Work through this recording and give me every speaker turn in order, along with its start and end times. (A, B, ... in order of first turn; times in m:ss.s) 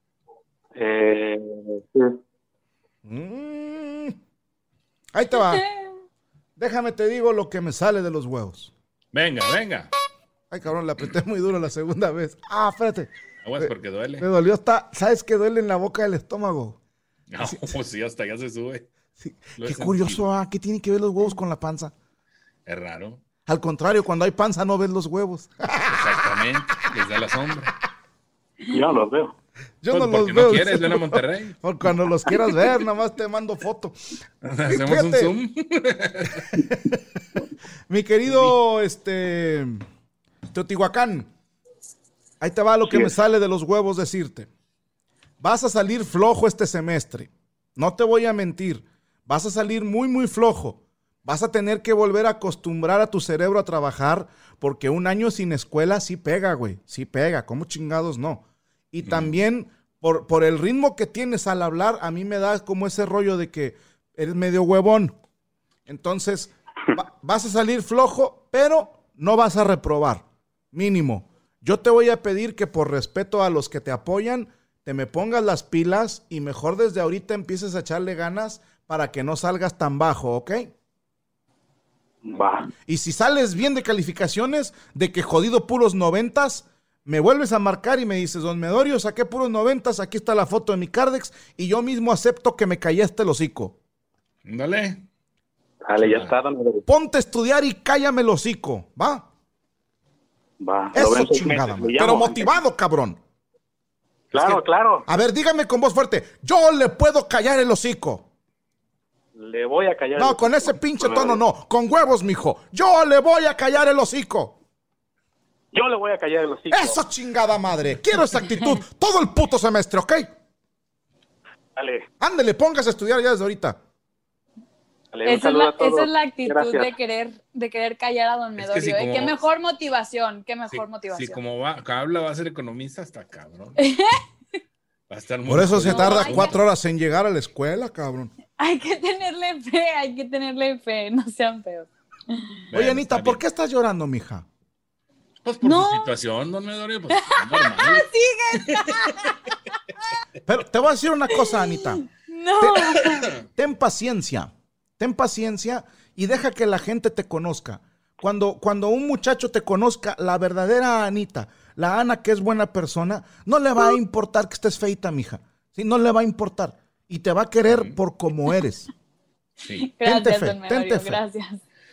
0:00.7-0:02.2 A
0:03.0-0:04.2 B
0:05.1-0:05.6 B
0:06.6-0:08.7 B
0:09.1-0:09.9 C
0:10.5-0:16.8 B
0:13.4-0:14.3 C
0:17.3-0:18.8 C
0:17.4-0:17.7 B
0:19.2-0:21.9 B
0:19.6-0:20.2 C
0:22.6-0:23.2 C
0:23.5-0:26.4 B
0:25.9-0:27.7 C
0:28.7-0:29.3 A
0:29.8-0:33.9 B
0:29.9-0:31.5 C
0:34.4-0:36.5 C
0:34.6-0:35.3 B
0:36.5-0:37.0 B
0:37.9-0:39.8 B
0:40.5-0:41.3 B
0:42.4-0:44.5 B
0:45.4-1:05.1 B
0:59.0-0:59.3 C
1:05.9-1:20.7 B
1:22.2-1:22.7 A
1:22.8-1:33.8 B
1:34.4-1:35.0 C
1:35.8-1:36.8 A
1:36.0-1:36.3 C
1:36.9-1:39.2 B
1:40.6-1:42.5 A
1:40.9-1:43.2 B
1:44.3-1:45.0 A
1:45.1-1:48.3 B
1:49.3-1:51.4 A
1:50.2-1:54.6 B
1:55.7-1:57.0 A
1:56.7-2:00.3 B
2:01.8-2:02.0 A
2:02.2-2:03.8 B
2:05.1-2:06.9 A
2:05.2-2:11.4 D
2:08.6-2:09.4 C
2:10.7-2:13.8 C
2:13.8-2:14.2 D
2:15.1-2:16.6 C
2:15.4-2:18.3 B
2:15.8-2:16.5 D
2:18.6-2:22.6 D
2:22.7-2:23.4 C
2:22.7-2:24.4 B
2:25.4-2:28.8 C
2:25.6-2:26.1 D
2:27.2-2:29.5 D
2:30.4-2:32.0 B
2:31.3-2:33.3 D
2:32.6-2:48.9 B
2:47.7-2:48.0 C
2:49.8-2:51.6 D
2:50.0-2:51.2 B